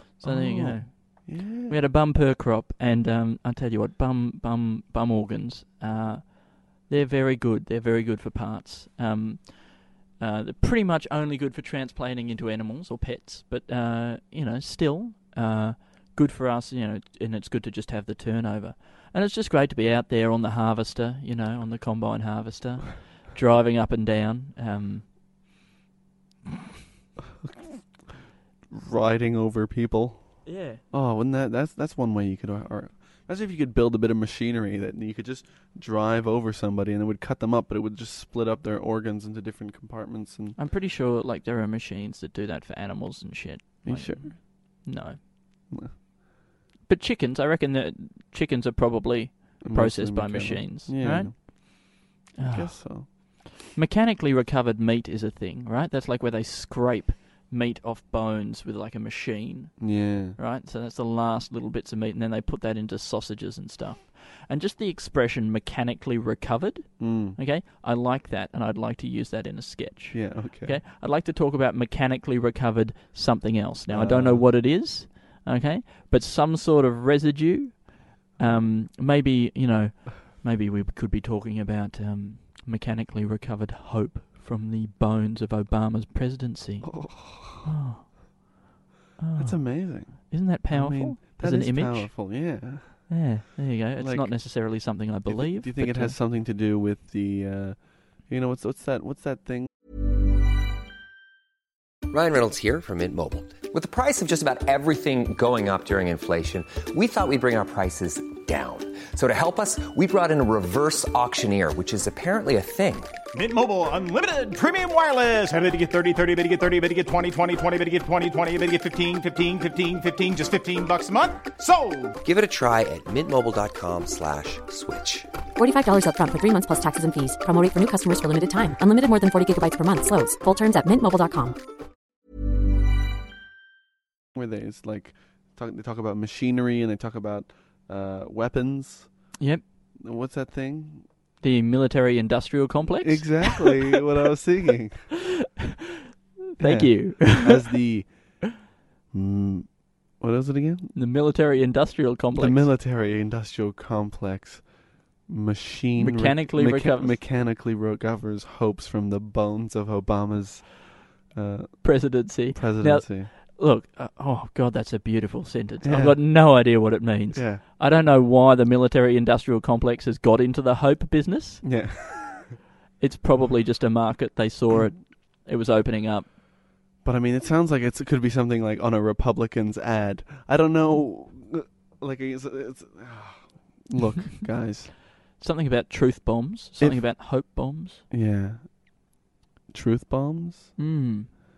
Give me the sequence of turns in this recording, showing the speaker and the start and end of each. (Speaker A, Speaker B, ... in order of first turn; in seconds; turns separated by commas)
Speaker A: 0.2-1.8, Speaker B: 0.2-25.1, Speaker A: 27.4-40.6, Speaker B: 30.4-30.8, Speaker B: 40.6-45.2, Speaker A: 43.8-44.4, Speaker B: 46.9-88.6, Speaker A: 49.6-51.4, Speaker A: 52.4-53.1, Speaker A: 59.8-60.4, Speaker A: 67.0-67.4, Speaker A: 70.1-70.8, Speaker A: 73.9-74.5, Speaker A: 86.9-87.5, Speaker B: 89.2-96.2, Speaker A: 89.4-93.3, Speaker A: 94.0-99.7, Speaker C: 102.1-113.1, Speaker D: 113.3-122.2, Speaker C: 122.2-125.3, Speaker E: 125.6-131.6, Speaker A: 134.3-139.3, Speaker B: 139.4-139.6, Speaker A: 140.0-141.1, Speaker B: 141.4-143.8, Speaker A: 143.0-145.2, Speaker B: 146.6-147.5, Speaker A: 146.6-148.5, Speaker A: 149.1-150.9, Speaker B: 150.9-152.7, Speaker A: 152.3-163.3, Speaker B: 156.0-157.2, Speaker B: 161.8-171.8, Speaker A: 165.8-166.4, Speaker A: 167.3-167.6, Speaker A: 171.6-172.6, Speaker B: 173.0-176.3, Speaker A: 177.0-184.9, Speaker B: 185.4-188.0, Speaker A: 186.8-187.1, Speaker A: 188.1-189.0, Speaker A: 189.7-190.8, Speaker B: 190.8-191.3